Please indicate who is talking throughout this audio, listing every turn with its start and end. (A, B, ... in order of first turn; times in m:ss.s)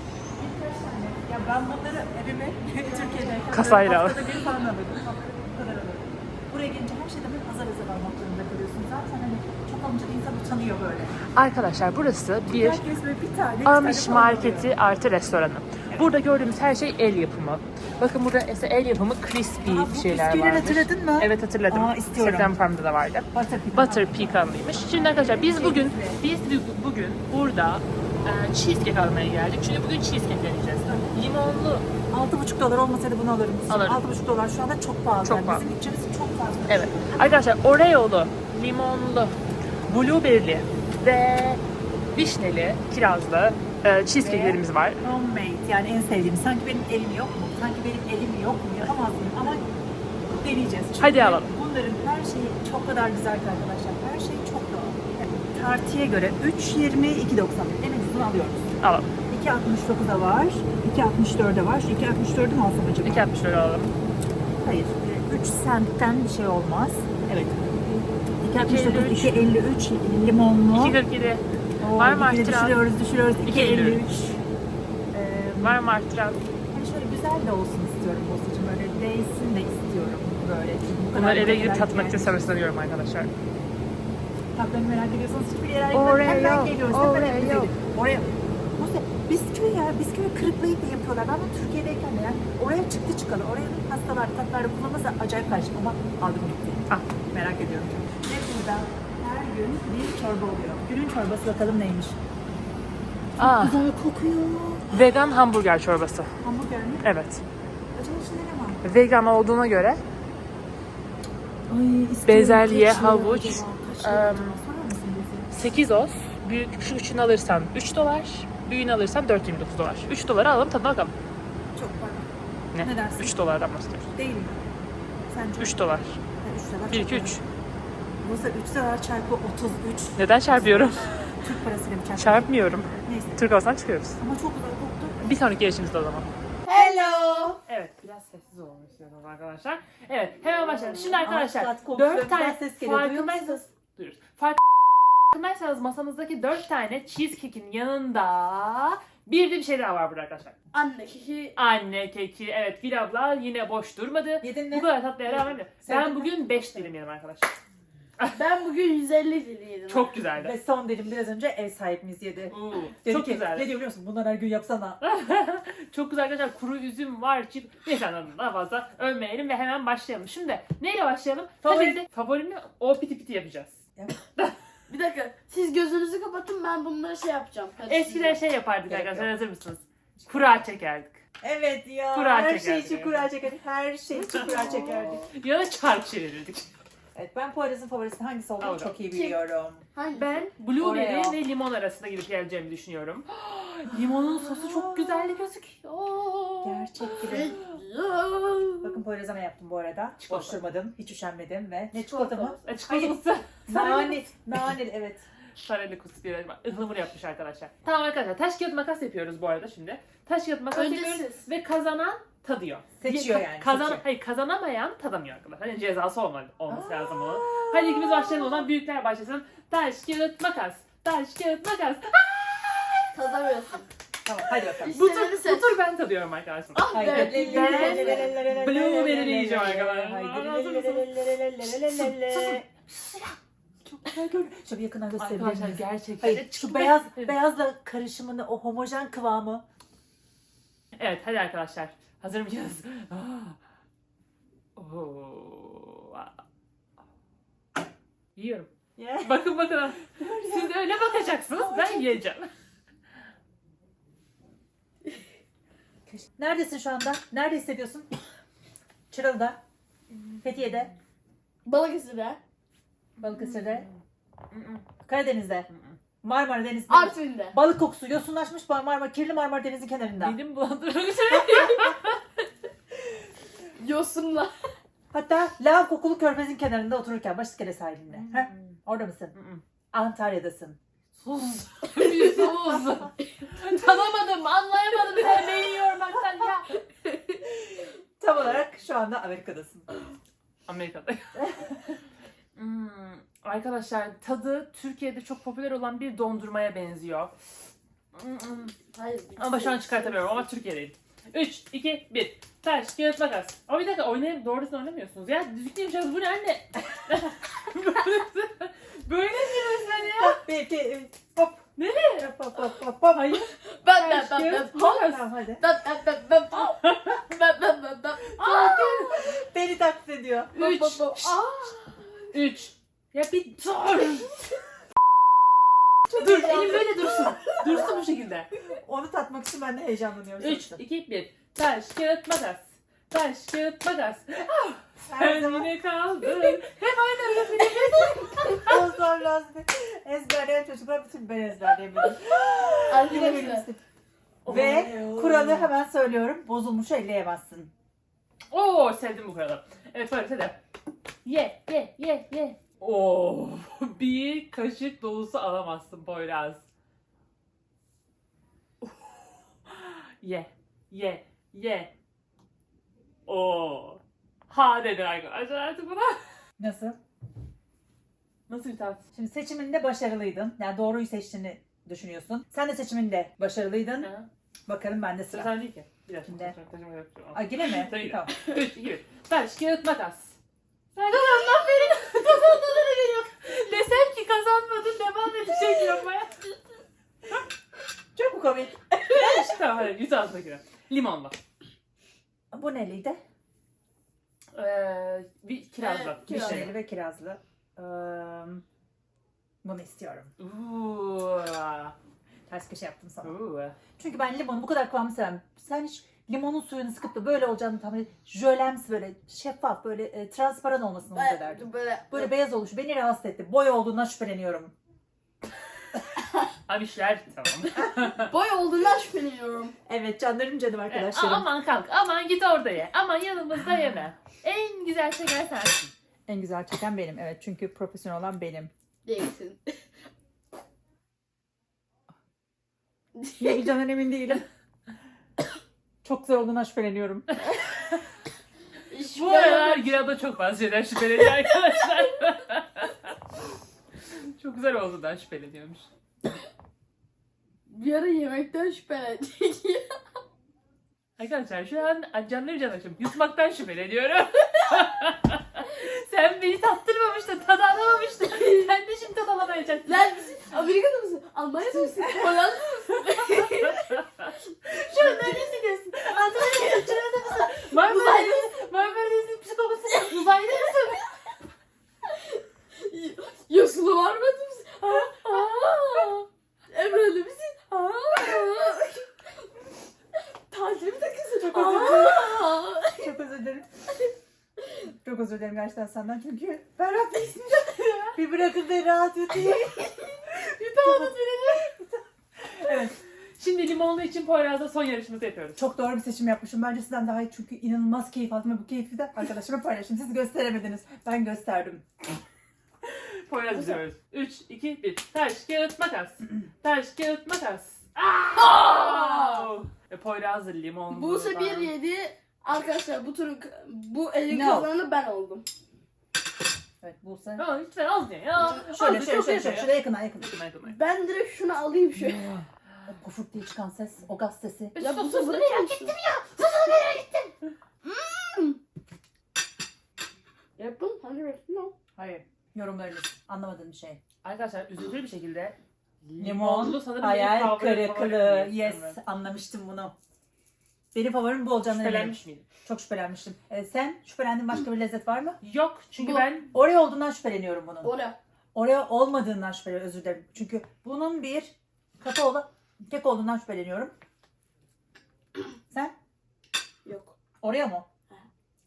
0:00.4-0:11.2 A
0:03.5-0:04.5 B
0:11.4-0:12.8 B
0:12.5-0:14.8 A
0:13.6-0:31.9 B
0:19.7-0:22.6 A
0:23.3-0:26.2 A
0:32.1-0:37.5 A
0:33.7-0:34.0 B
0:35.2-0:35.6 B
0:36.7-0:41.6 B
0:42.1-0:45.0 B
0:44.2-0:49.7 A
0:50.3-1:03.3 A
0:51.0-0:51.5 B
0:58.8-0:59.1 B
1:03.0-1:03.9 B
1:04.5-1:11.0 A
1:08.6-1:09.4 B
1:10.7-1:11.4 B
1:11.8-1:14.4 A
1:12.0-1:12.8 B
1:13.4-1:14.0 B
1:15.1-1:15.9 A
1:15.6-1:16.5 B
1:16.7-1:22.4 A
1:21.1-1:23.3 B
1:24.6-1:42.2 A
1:25.9-1:27.7 B
1:43.4-1:43.8 B
1:43.4-1:45.0 A
1:44.9-1:46.3 B
1:46.4-1:47.1 A
1:47.0-1:47.4 B
1:48.0-1:48.8 A
1:48.8-1:50.0 B
1:51.7-1:55.6 A
1:52.3-1:54.6 B
1:55.5-2:01.1 B
2:01.8-2:03.4 A
2:02.7-2:04.1 B
2:04.2-2:04.7 A
2:05.3-2:07.4 A
2:05.6-2:06.2 B
2:06.9-2:07.4 B
2:08.2-2:13.5 A
2:10.2-2:11.3 B
2:12.2-2:14.2 B
2:14.2-2:15.2 A
2:15.2-2:16.3 B
2:16.6-2:17.6 C
2:16.7-2:17.6 A
2:17.7-2:30.6 B
2:21.2-2:23.6 A
2:30.7-2:31.6 C
2:31.6-2:37.5 B
2:34.4-2:34.9 A
2:35.8-2:36.7 A
2:38.3-2:40.2 C
2:39.9-2:40.6 B
2:40.3-2:45.0 A
2:42.5-2:43.7 B
2:45.0-2:53.8 B
2:51.6-2:52.0 A
2:54.9-2:58.4 C
2:57.9-3:01.2 B
2:58.9-2:59.3 A
3:00.2-3:00.5 A
3:01.4-3:05.3 A
3:02.1-3:03.3 B
3:04.3-3:05.0 C
3:04.3-3:06.7 B
3:07.2-3:09.8 A
3:08.6-3:09.0 B
3:09.1-3:09.4 C
3:09.9-3:10.5 C
3:10.1-3:17.0 B
3:10.8-3:11.4 A
3:14.1-3:15.4 A
3:16.6-3:17.6 A
3:17.2-3:19.0 C
3:18.8-3:25.3 A
3:20.2-3:20.6 B
3:22.1-3:24.3 B
3:25.6-3:43.1 B
3:30.7-3:31.5 C
3:33.0-3:34.0 A
3:36.7-3:38.6 A
3:43.1-3:43.8 C
3:44.2-3:45.0 A
3:44.5-3:54.0 B
3:44.8-3:45.8 C
3:46.8-3:48.3 C
3:46.9-3:52.7 A
3:54.0-3:59.6 A
3:55.2-3:57.4 B
4:01.0-4:03.6 B
4:04.8-4:06.4 B
4:08.4-4:12.5 B
4:09.0-4:09.6 A
4:10.2-4:12.2 A
4:16.4-4:18.1 A
4:19.1-4:19.6 A
4:20.1-4:20.7 B
4:20.4-4:20.9 A
4:21.6-4:22.4 C
4:23.2-4:23.9 A
4:23.3-4:24.0 B
4:24.5-4:24.9 B
4:25.0-4:25.7 A
4:25.7-4:26.0 B
4:26.2-4:30.4 A
4:26.9-4:27.6 C
4:30.2-4:32.2 B
4:31.5-4:31.9 C
4:33.8-4:34.7 C
4:35.1-4:39.4 A
4:38.1-4:38.8 B
4:39.3-4:39.6 B
4:39.9-4:40.8 A
4:41.2-4:46.8 B
4:42.0-4:43.0 C
4:42.7-4:42.9 A
4:45.1-4:45.6 C
4:48.2-4:49.9 A
4:50.7-4:51.5 B
4:52.6-4:57.3 B
4:58.2-4:58.8 B
4:58.9-5:00.4 C
4:59.4-5:10.4 B
5:10.2-5:11.6 A
5:11.8-5:12.3 B
5:12.2-5:13.5 A
5:13.6-5:19.5 C
5:14.0-5:15.2 B
5:14.5-5:15.6 A
5:18.4-5:19.3 B
5:19.4-5:20.6 A
5:20.5-5:21.8 C
5:20.6-5:24.4 B
5:26.1-5:28.0 A
5:26.1-5:28.5 B
5:28.7-5:30.8 A
5:30.4-5:38.8 B
5:35.1-5:35.7 A
5:38.5-5:43.8 A
5:42.9-5:43.7 C
5:44.4-5:45.7 B
5:44.5-5:47.7 A
5:48.5-5:50.6 B
5:51.2-5:56.6 B
5:58.8-6:01.9 B
6:03.3-6:06.2 B
6:06.6-6:07.0 A
6:08.5-6:09.0 B
6:09.1-6:14.1 A
6:14.0-6:14.3 B
6:14.7-6:15.5 A
6:15.3-6:20.4 B
6:16.2-6:16.6 A
6:17.3-6:18.3 A
6:20.9-6:26.4 B
6:21.4-6:21.8 C
6:28.2-6:29.6 A
6:29.1-6:31.4 B
6:32.5-6:33.2 A
6:34.5-6:36.7 B
6:35.8-6:36.7 C
6:36.3-6:38.6 A
6:39.6-6:40.3 A
6:40.4-6:42.0 B
6:42.5-6:43.4 A
6:43.2-6:43.8 B
6:44.0-6:54.7 A
6:51.1-6:52.4 C
6:56.7-6:58.3 B
6:58.2-6:59.8 C
6:59.9-7:01.5 A
7:00.9-7:05.9 B
7:06.3-7:08.7 A
7:09.0-7:09.9 C
7:13.2-7:13.7 C
7:13.4-7:14.4 A
7:16.0-7:17.3 A
7:18.9-7:19.9 C
7:19.1-7:23.1 B
7:24.0-7:25.9 B
7:27.7-7:30.2 C
7:31.2-7:40.1 B
7:38.3-7:38.7 C
7:39.9-7:44.1 C
7:44.7-7:51.1 B
7:44.8-7:48.6 C
7:50.0-7:50.7 C
7:52.1-7:59.2 C
7:55.3-7:56.0 B
8:00.5-8:03.1 C
8:01.4-8:03.7 A
8:04.9-8:09.8 A
8:07.7-8:08.0 C
8:09.4-8:11.7 C
8:10.7-8:12.9 A
8:13.4-8:15.6 B
8:15.6-8:21.9 A
8:22.8-8:31.7 B
8:28.4-8:29.5 C
8:30.9-8:35.5 C
8:34.3-8:34.7 A
8:36.8-8:37.5 A
8:37.4-8:40.8 B
8:38.4-8:39.2 C
8:38.6-8:40.4 A
8:40.7-8:42.3 C
8:42.9-8:44.8 A
8:44.8-8:46.3 B
8:44.8-8:47.3 C
8:47.8-8:48.6 C
8:50.6-8:51.8 C
8:52.0-8:54.0 A
8:54.2-8:59.0 B
8:56.2-9:00.0 A
9:00.9-9:05.4 A
9:01.6-9:02.5 B
9:05.4-9:06.5 B
9:06.0-9:06.3 C
9:06.5-9:07.9 A
9:07.8-9:08.2 C
9:08.5-9:13.9 A
9:15.7-9:16.0 A
9:16.8-9:17.2 C
9:17.4-9:17.9 A